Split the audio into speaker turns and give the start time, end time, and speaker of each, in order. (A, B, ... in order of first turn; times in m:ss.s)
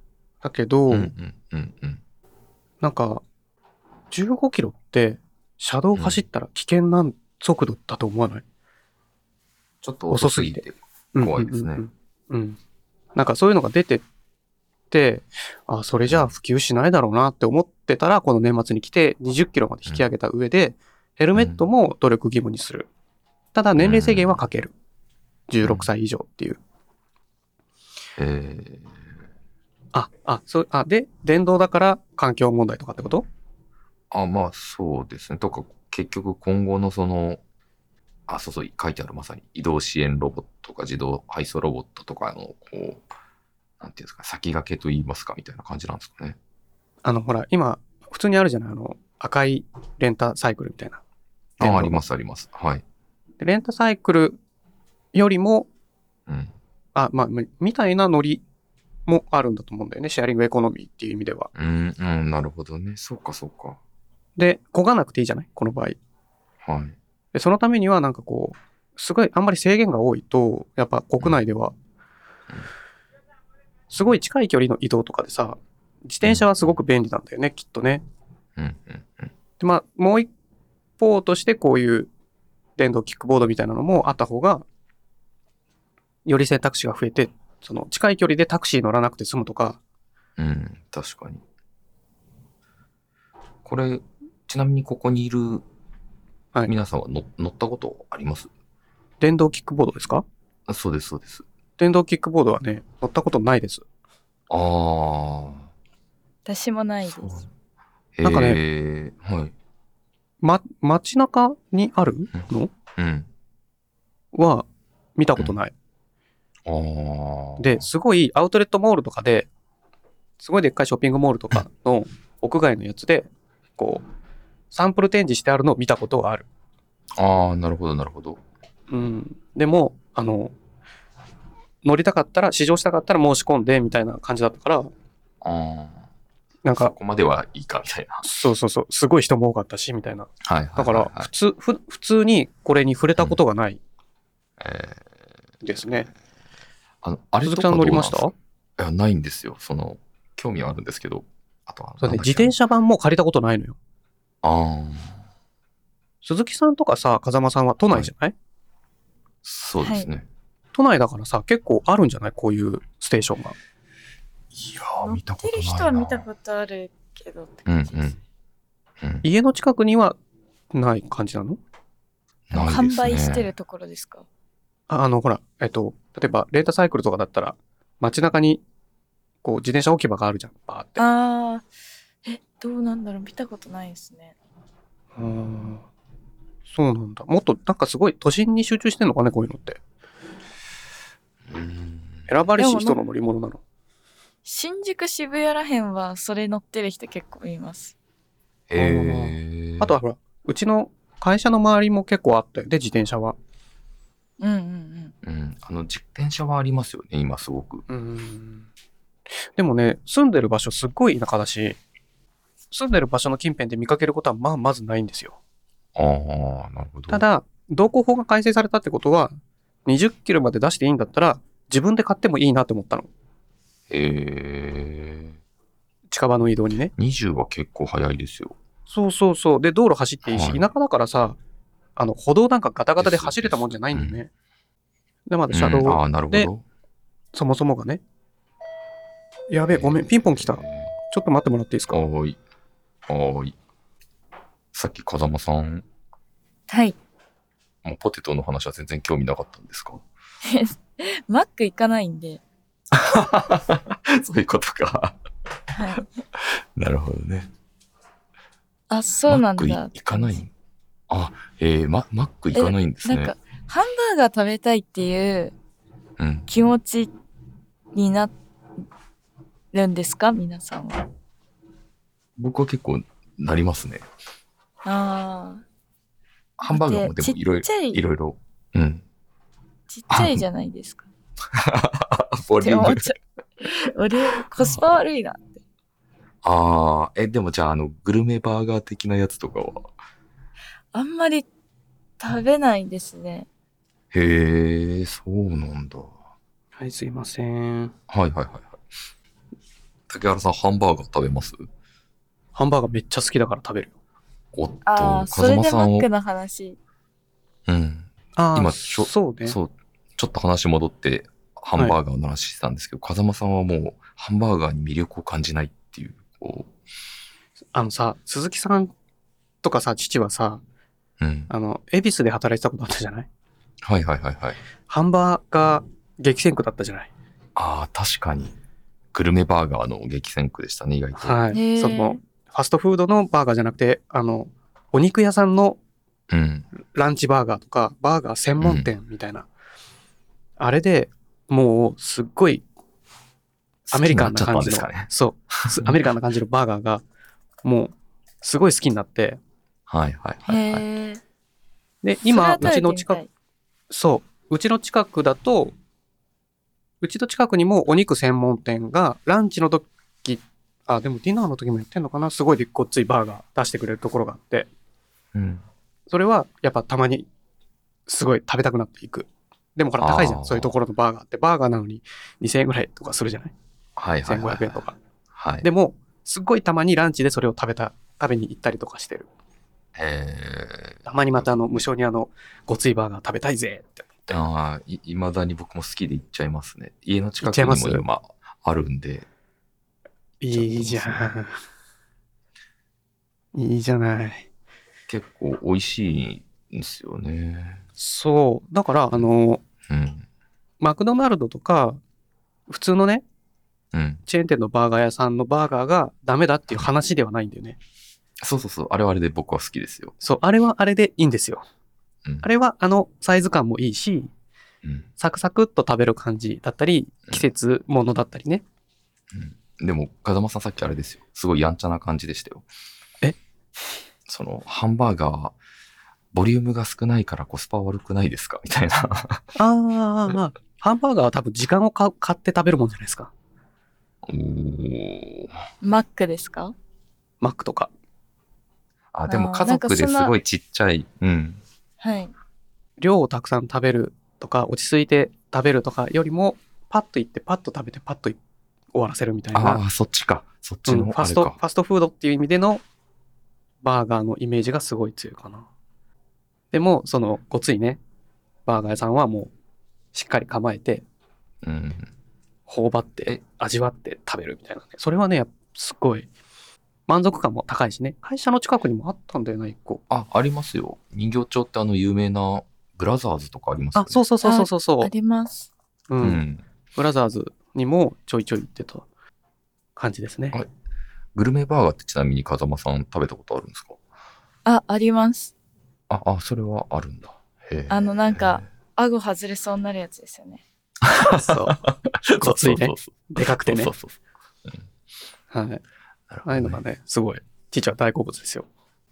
0:00.4-0:01.1 A
0:00.9-0:02.0 B
0:02.8-0:03.2 A
0:04.1-0:08.4 A
0:06.0-0:06.2 B
0:09.8-0:11.8 B
0:10.1-0:12.6 A
0:13.2-0:14.0 A
0:14.9-0:22.9 A
0:21.4-0:21.6 B
0:23.5-0:24.7 A
0:23.8-0:24.4 B
0:25.5-0:26.6 A
0:25.6-0:25.9 B
0:28.2-0:28.9 B
0:29.9-0:33.3 A
0:34.1-0:37.4 B
0:38.3-0:43.0 B
0:43.8-0:46.4 B
0:47.0-0:51.0 A
0:51.6-0:52.0 A
0:51.6-0:52.8 B
0:53.4-0:54.4 A
0:55.1-0:55.7 A
0:56.3-0:56.5 B
0:57.0-0:58.4 A
0:59.1-1:01.5 A
1:01.6-1:03.8 B
1:04.4-1:06.0 A
1:06.6-1:07.0 B
1:07.3-1:11.8 A
1:13.9-1:18.0 A
1:16.2-1:16.7 B
1:18.6-1:19.3 B
1:19.6-1:20.3 A
1:21.0-1:22.1 A
1:22.8-1:24.6 A
1:26.3-1:29.8 A
1:30.4-1:31.4 B
1:33.6-1:35.6 B
1:36.7-1:38.5 B
1:39.2-1:40.2 A
1:40.7-1:41.4 B
1:41.8-1:43.8 A
1:44.5-1:45.7 B
1:46.5-1:47.4 C
1:47.1-1:47.5 B
1:48.2-1:49.5 B
1:48.2-1:48.6 A
1:50.4-1:52.7 A
1:53.0-1:53.3 B
1:54.3-1:54.7 A
1:55.2-1:55.7 A
1:56.6-1:57.9 B
1:57.6-1:59.5 A
2:00.4-2:04.0 A
2:04.7-2:06.5 A
2:07.2-2:08.4 B
2:08.9-2:10.5 A
2:11.8-2:14.9 A
2:15.4-2:16.0 B
2:16.6-2:17.0 A
2:16.8-2:18.2 B
2:18.2-2:23.8 A
2:20.4-2:21.3 B
2:24.6-2:25.0 B
2:25.6-2:26.1 A
2:27.0-2:32.5 B
2:27.4-2:28.3 A
2:32.0-2:33.8 A
2:34.4-2:35.2 B
2:36.2-2:38.4 A
2:39.4-2:40.3 B
2:39.8-2:40.1 C
2:40.8-2:43.6 A
2:44.6-2:46.3 B
2:45.0-2:48.1 C
2:47.7-2:48.2 B
2:49.2-2:50.2 A
2:50.7-2:51.6 A
2:52.5-2:53.5 B
2:52.5-2:54.2 C
2:54.9-2:58.6 A
2:59.4-3:01.0 A
3:01.0-3:01.6 C
3:02.2-3:04.3 C
3:05.2-3:05.8 A
3:06.7-3:09.8 A
3:11.5-3:12.3 B
3:12.3-3:13.6 A
3:12.6-3:13.0 C
3:14.4-3:17.9 C
3:18.7-3:19.9 B
3:18.8-3:23.4 A
3:24.4-3:25.1 C
3:25.2-3:27.8 B
3:27.9-3:28.7 A
3:29.6-3:31.8 A
3:32.7-3:35.4 A
3:36.0-3:37.2 B
3:37.1-3:39.3 A
3:39.9-3:43.1 A
3:43.9-3:45.4 B
3:46.1-3:46.9 A
3:47.0-3:48.6 B
3:48.9-3:51.4 A
3:50.3-3:50.6 B
3:52.0-3:54.3 A
3:53.0-3:54.2 B
3:55.3-3:56.5 A
3:55.5-3:56.6 B
3:57.3-3:58.0 A
3:59.5-4:02.0 A
3:59.7-4:00.9 B
4:01.9-4:02.4 B
4:03.1-4:03.6 B
4:04.7-4:05.8 B
4:06.7-4:07.0 C
4:07.8-4:10.0 B
4:10.4-4:12.4 C
4:12.9-4:15.2 B
4:15.7-4:16.1 C
4:16.8-4:17.5 B
4:18.9-4:20.4 C
4:19.3-4:20.5 B
4:21.1-4:23.3 B
4:22.5-4:25.5 C
4:26.2-4:26.5 B
4:26.5-4:27.1 C
4:27.9-4:28.3 C
4:29.7-4:31.0 C
4:32.4-4:34.0 B
4:34.8-4:35.6 C
4:36.6-4:39.0 B
4:36.7-4:38.0 C
4:39.9-4:41.1 C
4:40.1-4:40.4 B
4:41.5-4:43.0 B
4:42.6-4:45.5 C
4:44.3-4:45.0 B
4:46.4-4:49.9 B
4:50.9-4:51.5 C
4:52.2-4:53.5 C
4:54.1-4:56.1 B
4:56.8-4:57.9 A
4:58.1-4:58.8 B
5:00.1-5:01.6 B
5:02.6-5:03.9 A
5:04.5-5:06.1 B
5:04.8-5:06.8 C
5:07.7-5:16.7 B
5:08.4-5:09.6 A
5:17.7-5:18.9 A
5:19.6-5:20.6 A
5:21.2-5:21.5 B
5:21.5-5:23.3 A
5:23.8-5:24.6 B
5:24.9-5:27.1 A
5:27.6-5:28.6 B
5:29.1-5:31.4 B
5:31.2-5:35.8 A
5:31.5-5:32.2 C
5:36.3-5:36.7 B
5:36.8-5:39.5 A
5:38.6-5:38.9 B
5:40.6-5:42.6 A
5:43.9-5:45.1 B
5:43.9-5:47.0 A
5:45.6-5:46.0 B
5:47.6-5:49.4 A
5:49.9-5:50.8 B
5:50.5-5:51.2 C
5:52.0-5:53.2 A
5:52.3-5:53.3 C
5:53.9-5:55.7 A
5:57.0-6:04.7 A
6:05.3-6:05.6 B
6:06.1-6:07.3 A
6:08.1-6:13.5 A
6:10.0-6:10.7 B
6:14.0-6:14.8 B
6:14.2-6:15.0 A
6:15.3-6:15.7 B
6:15.6-6:19.3 A
6:20.0-6:21.5 B
6:21.1-6:24.3 A
6:24.3-6:29.3 B
6:27.4-6:28.0 A
6:30.4-6:31.6 A
6:30.5-6:31.4 B
6:33.5-6:34.5 A
6:35.1-6:37.8 B
6:38.0-6:39.6 A
6:39.9-6:40.3 B
6:40.8-6:42.0 A
6:42.7-6:43.2 A
6:43.9-6:44.2 B
6:44.3-6:47.8 A
6:48.4-6:50.1 B
6:50.2-6:51.6 A
6:52.4-6:54.3 A
6:54.8-6:55.1 B
6:55.2-6:58.6 A
6:59.3-7:02.7 B
7:04.3-7:05.6 B
7:06.3-7:09.5 B
7:09.6-7:13.3 A
7:14.2-7:15.5 B
7:15.8-7:16.7 C
7:17.4-7:17.9 A
7:19.1-7:21.6 B
7:19.3-7:20.3 C
7:22.0-7:22.3 C
7:23.0-7:28.4 A
7:28.9-7:29.8 A
7:29.6-7:31.6 B
7:30.9-7:32.8 A
7:33.8-7:35.7 A
7:36.7-7:38.0 A
7:38.7-7:39.5 A
7:40.1-7:41.0 A
7:41.6-7:42.1 B
7:42.7-7:46.3 A
7:47.1-7:50.0 A
7:50.1-7:54.2 B
7:54.0-7:55.1 A
7:54.4-7:55.7 C
7:56.1-7:56.4 A
7:56.2-7:56.6 B
7:57.0-7:59.1 A
8:00.0-8:00.6 A
8:01.4-8:04.0 B
8:04.7-8:05.5 C
8:06.1-8:08.6 B
8:07.9-8:10.6 C
8:11.0-8:14.9 B
8:11.2-8:11.8 A
8:12.4-8:13.9 A
8:15.5-8:15.8 A
8:16.3-8:16.8 B
8:16.4-8:18.7 A